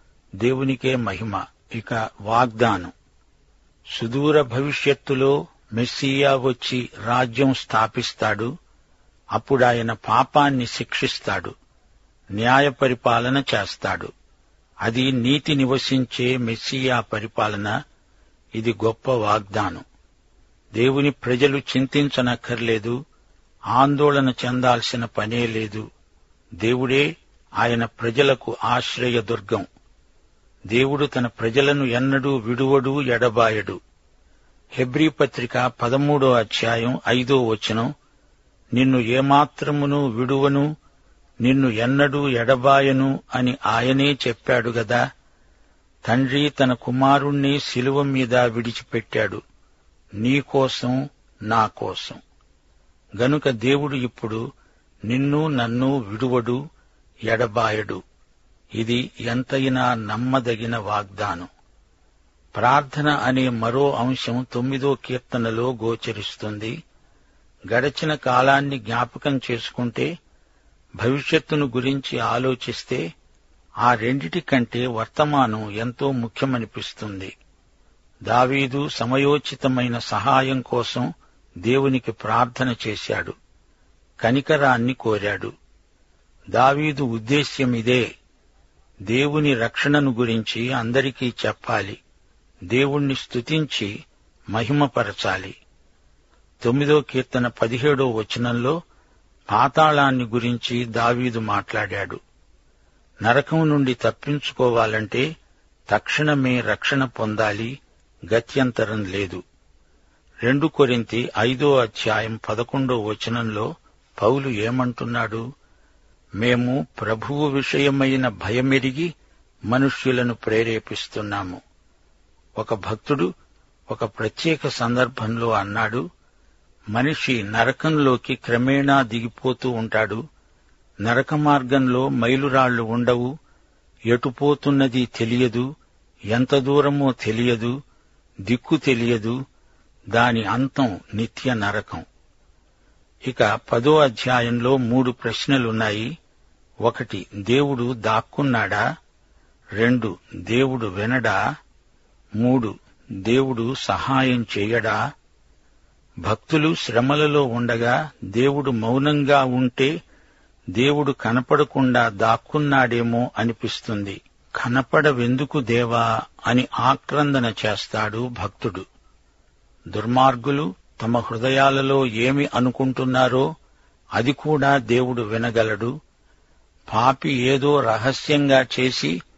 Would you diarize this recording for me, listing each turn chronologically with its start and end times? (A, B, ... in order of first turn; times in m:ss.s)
0:00.4-0:02.9 A
0:04.0-0:08.5 A
0:09.3-0:11.5 A
0:12.4-0:14.1 A
0:14.8-0:17.7 A
0:18.6-0:19.8 A
0:20.8-0:23.0 A
0:23.7-0:25.8 A
0:26.6-0:27.0 A
0:27.6-0:29.7 A
0:30.7-0:33.8 A
0:34.8-0:37.9 A
0:38.8-0:40.7 A
0:41.4-0:45.0 A
0:46.0-0:49.4 A
0:50.2-0:51.0 A
0:51.5-0:52.2 A
0:53.2-0:54.4 A
0:55.1-0:56.6 A
0:57.3-0:58.0 A
0:58.8-1:01.5 A
1:02.6-1:06.7 A
1:07.7-1:10.1 A
1:11.0-1:13.0 A
1:13.8-1:17.3 A
1:18.3-1:21.1 A
1:21.6-1:23.3 A
1:24.2-1:25.5 A
1:26.5-1:28.0 A
1:29.1-1:32.0 A
1:32.7-1:33.9 A
1:34.5-1:35.6 A
1:36.6-1:38.8 A
1:39.5-1:42.2 A
1:43.2-1:45.2 A
1:45.9-1:47.7 A
1:48.3-1:49.4 A
1:50.4-1:55.4 A
1:56.4-1:59.1 A
1:59.7-2:01.6 A
2:02.6-2:03.3 A
2:03.9-2:06.0 A
2:06.9-2:10.2 A
2:11.0-2:13.3 A
2:14.1-2:15.6 A
2:16.3-2:17.7 A
2:18.5-2:19.4 A
2:20.1-2:22.0 A
2:23.2-2:26.1 A
2:26.8-2:28.8 A
2:29.8-2:31.4 A
2:32.4-2:32.7 A
2:33.2-2:35.0 A
2:36.2-2:39.9 A
2:40.8-2:48.8 A
2:49.9-2:53.4 A
2:54.2-2:55.9 A
2:56.9-2:59.1 A